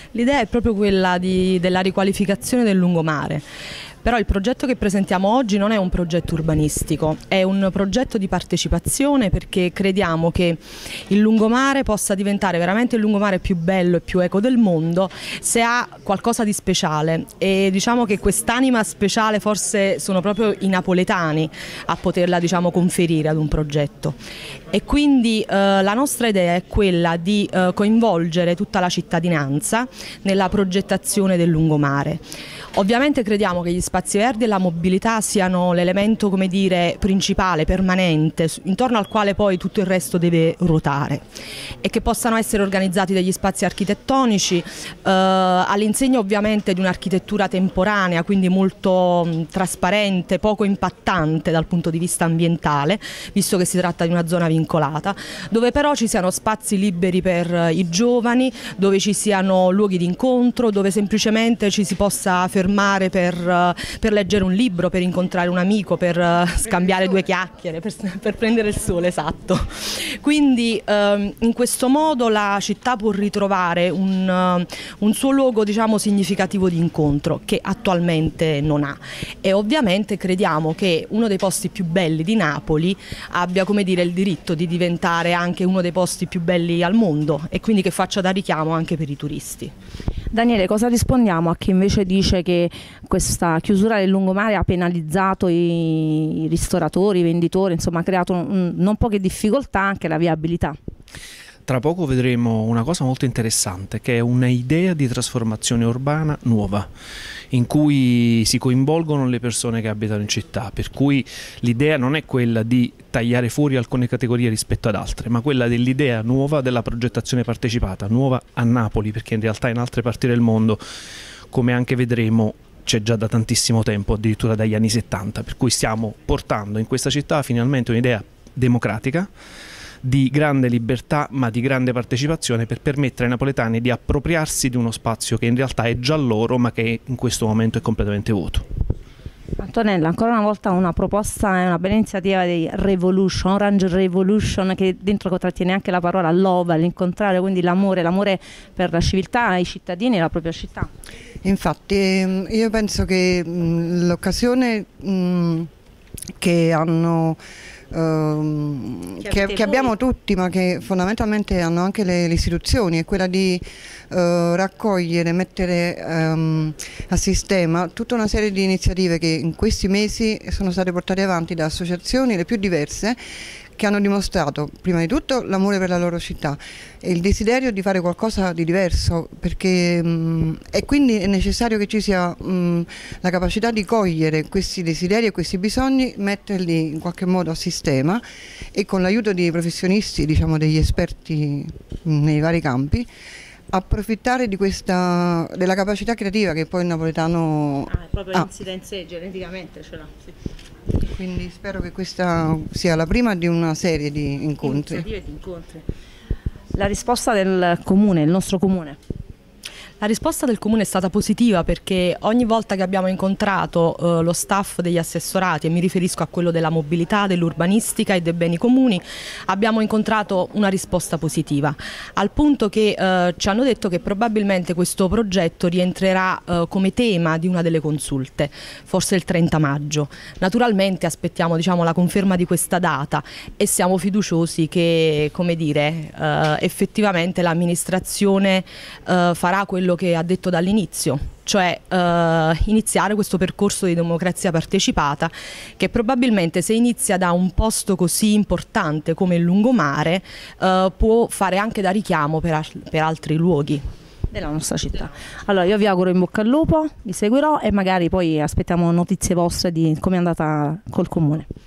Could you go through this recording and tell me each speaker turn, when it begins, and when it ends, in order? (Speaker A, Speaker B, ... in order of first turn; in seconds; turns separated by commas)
Speaker A: 0.1-3.4, Speaker A: 4.0-24.2, Speaker A: 24.7-32.2, Speaker A: 32.8-41.2, Speaker A: 41.8-89.7, Speaker B: 90.3-100.8, Speaker C: 101.7-106.9, Speaker C: 107.5-120.8, Speaker C: 121.5-129.3, Speaker C: 130.0-138.6, Speaker B: 139.6-150.9, Speaker D: 151.4-155.7, Speaker D: 156.4-157.4, Speaker D: 157.9-173.2, Speaker B: 159.3-159.9, Speaker D: 173.8-193.1, Speaker D: 193.7-198.5, Speaker B: 197.9-200.1, Speaker D: 201.0-205.1, Speaker B: 204.6-205.8, Speaker B: 206.7-209.0, Speaker A: 210.0-253.8, Speaker B: 254.3-261.5